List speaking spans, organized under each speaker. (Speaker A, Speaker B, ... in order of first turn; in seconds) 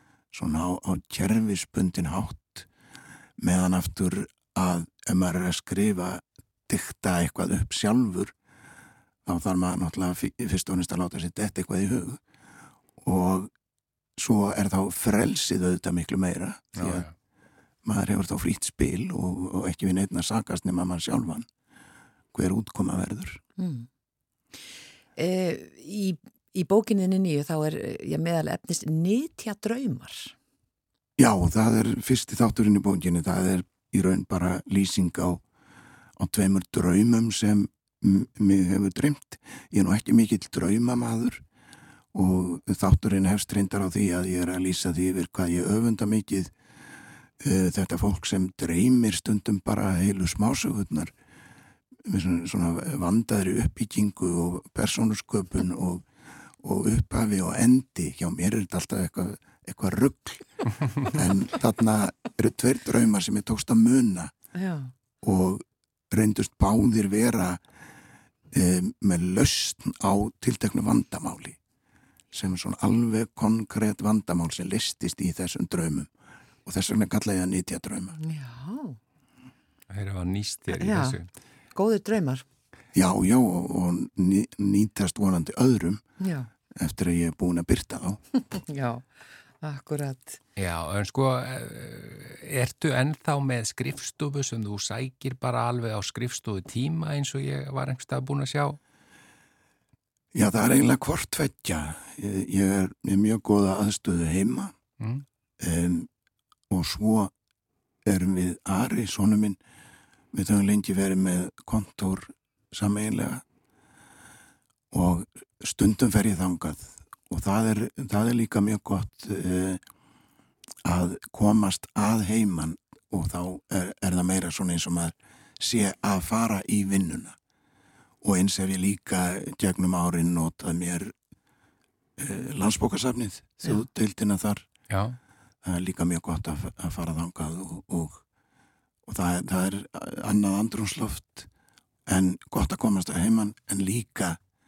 Speaker A: 0.3-2.7, 3.4-8.3, 9.2-12.2, 13.0-13.5, 14.2-17.1, 17.8-21.5, 22.3-23.4, 31.2-35.4, 36.2-41.4, 42.1-46.5, 47.4-51.1, 52.0-56.0, 56.6-64.3, 65.2-67.6, 68.5-71.6, 72.3-76.1, 76.7-78.2, 82.9-86.0, 86.8-88.2, 100.3-104.7, 105.6-106.1, 106.7-107.3, 108.0-109.6, 110.3-113.4, 114.9-119.8, 120.8-127.3, 128.2-131.1, 132.2-134.7, 135.6-138.2, 139.1-141.5, 142.1-144.4
Speaker B: 16.8-17.1, 79.9-81.2, 90.6-98.8, 134.9-135.2
Speaker C: 23.6-23.9, 25.1-30.3, 64.5-64.9, 78.2-79.0, 80.8-81.2, 81.7-82.4, 86.2-86.5, 88.5-89.0, 89.6-90.4